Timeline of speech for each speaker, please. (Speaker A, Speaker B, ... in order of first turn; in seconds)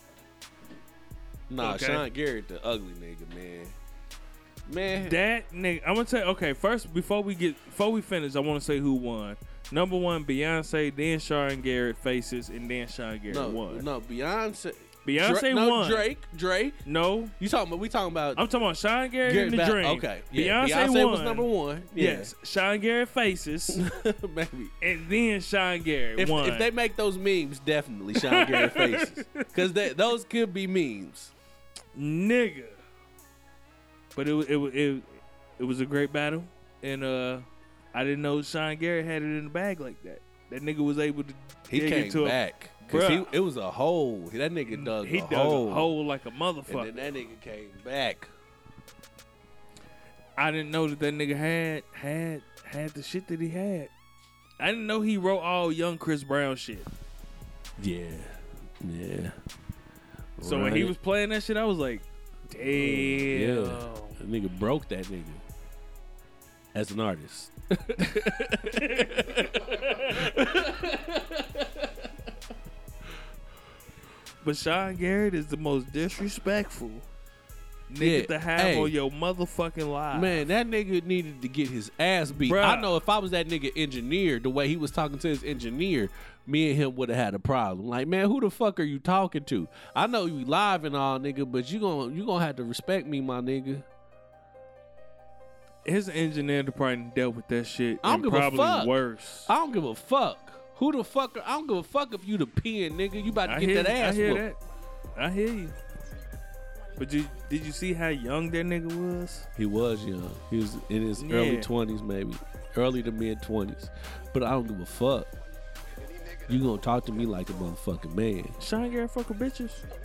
Speaker A: 1.5-3.8, 4.7-5.2, 13.3-16.8, 17.4-18.4, 19.2-22.3, 23.7-24.8, 26.2-31.3, 41.7-45.9, 46.7-48.3, 57.8-59.4, 60.4-60.9, 62.5-65.4, 66.7-72.1, 78.0-78.9, 80.1-93.8, 98.0-98.9, 99.5-104.4, 109.5-115.3, 116.5-118.6
Speaker B: 1.6-2.0, 5.0-13.9, 15.1-16.1, 16.8-17.3, 18.4-23.8, 24.8-26.7, 28.2-29.9, 31.9-32.8, 34.1-43.3, 44.7-47.0, 50.4-53.9, 54.6-56.9, 60.4-64.2, 68.2-70.3, 74.4-77.1, 77.9-80.5, 82.4-82.9, 95.8-99.5, 103.4-104.6, 105.2-105.7, 107.0-109.5, 111.2-111.7, 118.6-119.8